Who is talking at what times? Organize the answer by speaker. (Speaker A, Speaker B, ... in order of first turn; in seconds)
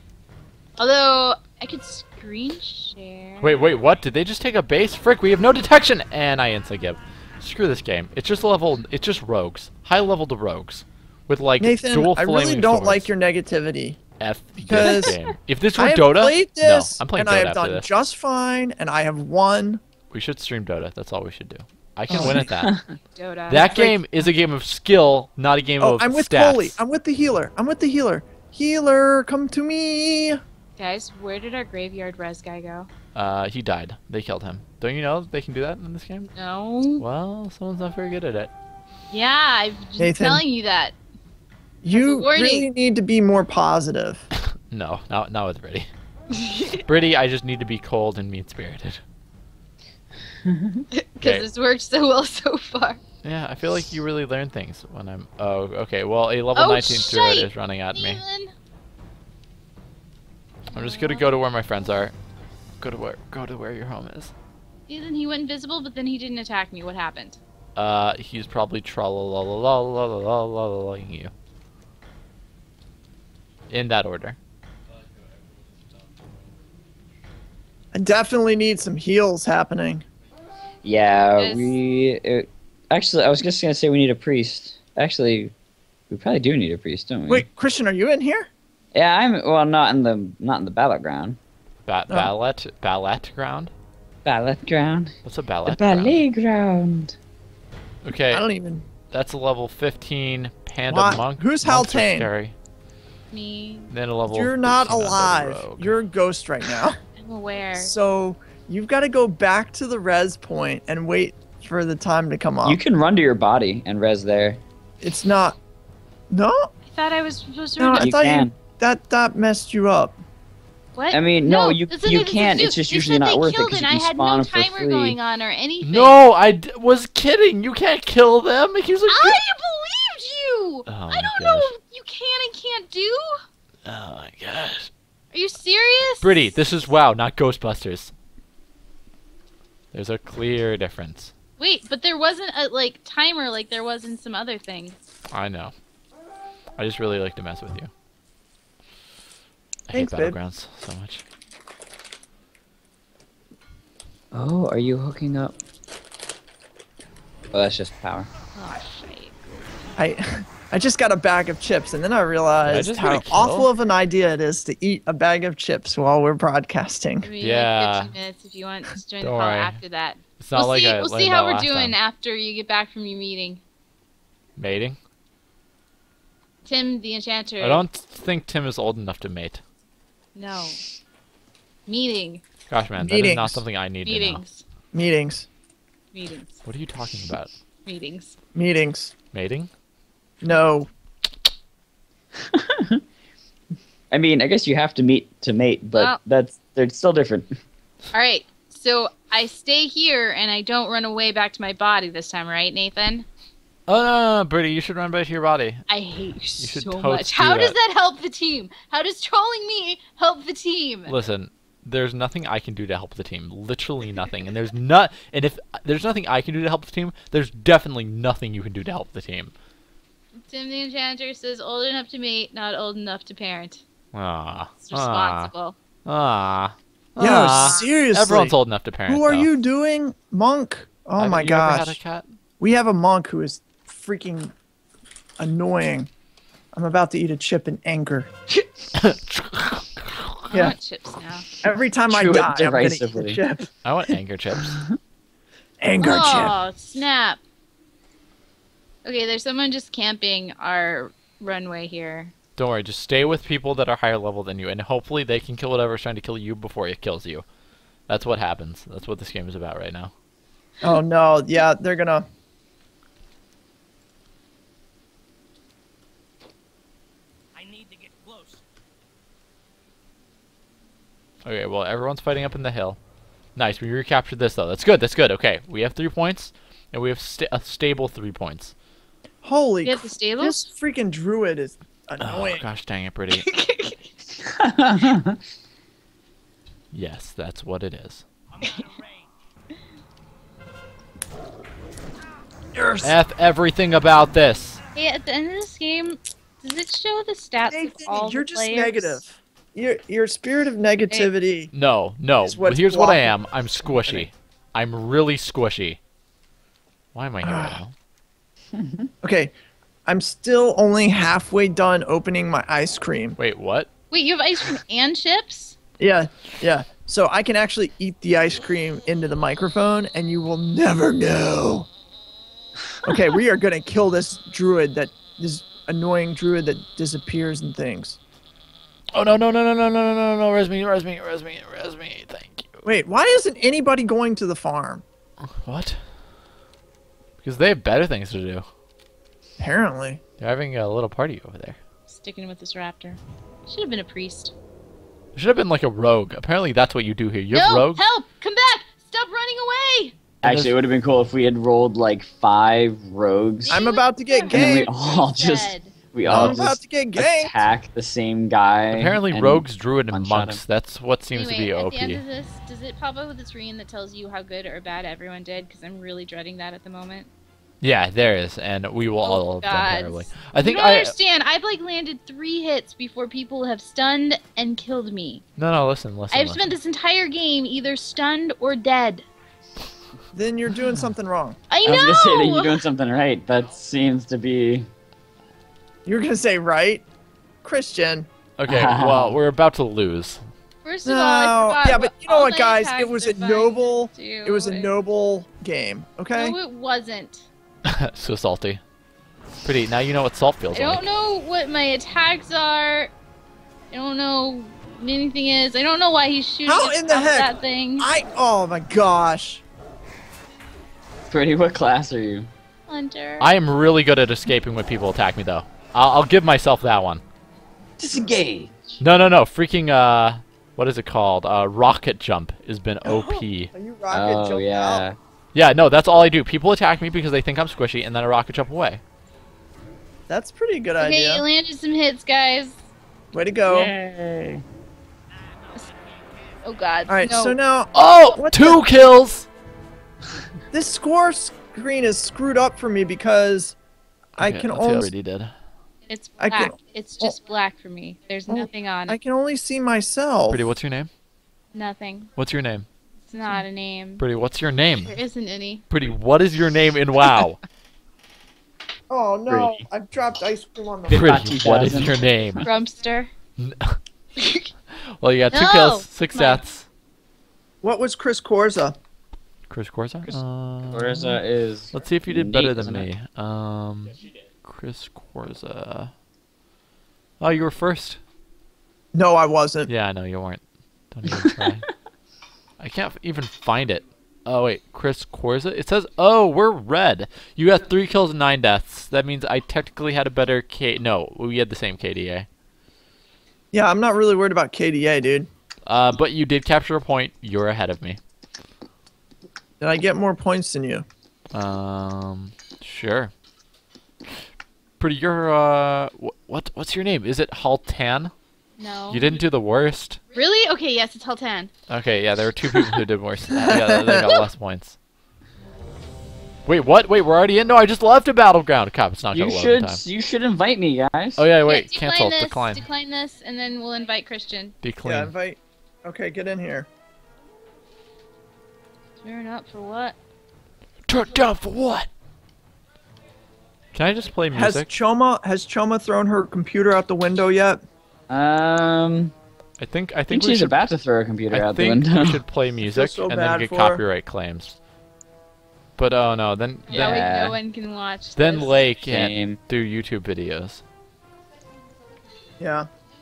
Speaker A: 0.8-3.5, 14.8-15.2, 23.1-23.6, 30.8-32.9, 36.3-37.0, 39.1-40.9, 41.9-42.7, 46.3-46.8, 50.9-53.0, 56.5-58.5, 60.7-61.2, 64.9-67.4, 81.4-81.8, 103.3-103.9, 107.1-107.9, 116.9-118.1, 120.9-126.2, 129.1-133.4, 135.3-136.4, 141.6-145.0, 158.5-159.6, 167.2-173.6, 176.6-177.8, 180.3-180.8, 181.9-182.4, 184.0-184.6, 186.1-186.6, 187.9-188.4, 195.9-196.2, 198.1-203.2, 205.9-211.1, 220.4-223.8, 224.8-225.8, 227.5-227.8, 240.5-241.4, 246.0-247.4, 249.0-252.3, 279.8-280.6, 283.4-284.1, 294.9-299.2, 314.1-315.8, 342.1-344.5, 347.5-350.1, 353.6-355.9, 361.3-367.3, 369.2-375.4, 376.3-379.2, 381.7-382.9, 390.8-394.9, 396.3-397.5, 400.7-403.1, 403.9-408.1, 412.9-413.5, 431.0-432.8, 436.6-437.6, 446.1-449.2, 451.7-452.3, 453.3-454.2, 455.0-455.8, 462.6-463.3, 464.4-464.7, 465.5-466.6, 508.8-509.4, 510.3-511.7, 521.7-524.8, 529.2-530.1, 546.9-548.7
Speaker B: 3.4-13.1, 14.2-17.9, 20.1-22.7, 23.5-26.8, 33.1-36.3, 37.0-38.5, 44.3-45.9, 46.8-49.0, 53.2-58.2, 60.7-62.1, 62.8-64.3, 67.8-71.3, 73.7-74.4, 91.9-93.7, 95.2-96.2, 98.0-98.4, 99.1-102.5, 103.9-106.0, 125.8-129.4, 130.9-131.7, 133.8-134.9, 136.2-138.1, 139.9-141.3, 145.3-145.7, 146.8-147.9, 149.9-151.2, 162.7-163.7, 167.4-168.1, 169.2-169.8, 170.4-171.9, 174.6-175.0, 177.6-179.6, 182.7-184.4, 186.6-187.5, 189.3-189.7, 203.9-205.8, 206.6-207.8, 211.1-219.5, 224.1-225.5, 226.1-229.5, 231.2-232.3, 238.9-240.5, 243.8-244.8, 252.6-257.4, 258.1-260.1, 271.4-273.0, 273.6-278.7, 282.2-283.5, 286.9-288.2, 293.0-294.8, 301.7-306.0, 307.1-307.9, 313.4-313.9, 329.1-332.9, 335.4-336.0, 337.4-338.6, 340.4-341.8, 345.4-348.0, 350.4-350.7, 356.2-356.5, 358.9-362.2, 367.8-371.1, 375.6-376.6, 388.6-390.4, 397.9-398.8, 399.6-401.0, 413.4-417.2, 419.0-423.7, 425.5-429.0, 437.9-439.5, 444.4-445.5, 450.5-451.1, 452.4-452.9, 454.2-455.1, 455.9-457.6, 461.1-462.6, 463.6-464.0, 464.9-466.9, 469.7-476.1, 477.4-478.2, 479.9-481.9, 482.8-492.5, 495.9-498.2, 501.5-503.3, 505.0-508.3, 509.1-510.2, 511.9-515.0, 516.6-520.0, 521.4-522.8, 524.8-525.3, 531.1-532.1, 533.9-534.9, 539.8-541.0, 541.5-544.8, 546.0-547.3, 548.4-550.8
Speaker C: 11.6-14.0, 14.7-15.1, 15.7-19.8, 22.1-22.5, 23.5-24.0, 25.8-30.4, 40.0-40.4, 41.8-44.2, 77.9-80.0, 87.3-88.5, 98.3-98.9, 100.9-102.3, 104.3-107.0, 107.8-112.8, 115.0-115.6, 116.3-116.7, 117.8-120.2, 149.9-150.4, 160.0-167.3, 183.0-183.6, 184.9-185.5, 188.5-189.1, 190.4-190.9, 227.2-228.5, 229.1-232.0, 232.6-234.5, 235.4-236.1, 236.7-238.3, 240.5-240.8, 241.6-244.1, 245.8-246.5, 260.8-262.2, 279.4-282.6, 292.7-293.2, 297.7-301.7, 302.4-303.3, 307.4-307.8, 309.2-309.5, 310.1-313.4, 316.0-321.9, 323.0-328.2, 332.9-335.0, 339.6-340.2, 353.7-354.9, 356.3-357.6, 380.3-381.6, 386.1-387.0, 387.6-388.3, 391.0-396.6, 406.6-409.6, 423.0-425.1, 430.3-431.4, 433.3-433.9, 437.1-438.9, 440.7-443.8, 444.4-445.1, 446.4-447.4, 448.5-450.7, 459.1-461.4, 467.8-469.0, 479.1-479.9, 493.7-495.5, 499.8-501.1, 513.6-514.4, 525.0-526.9, 534.5-537.8, 542.9-544.0, 552.6-552.9
Speaker D: 22.1-23.0, 50.4-50.8, 80.8-85.5, 86.1-87.5, 88.9-91.4, 94.2-95.1, 95.7-97.2, 112.6-114.6, 118.0-118.5, 121.1-125.2, 154.3-155.6, 157.5-158.3, 192.4-193.0, 194.1-197.5, 242.1-243.4, 244.6-244.9, 284.4-285.4, 308.7-309.1, 350.4-353.9, 354.5-360.6, 381.9-384.9, 388.7-389.4, 411.3-412.5, 418.0-418.9, 424.1-425.2, 433.7-434.6, 459.5-459.8, 461.1-462.7, 470.9-473.1, 519.3-521.4, 538.3-539.3, 540.3-542.4, 546.9-547.6, 549.1-549.6
Speaker E: 75.1-76.3, 267.5-268.6, 288.5-289.4, 435.3-436.6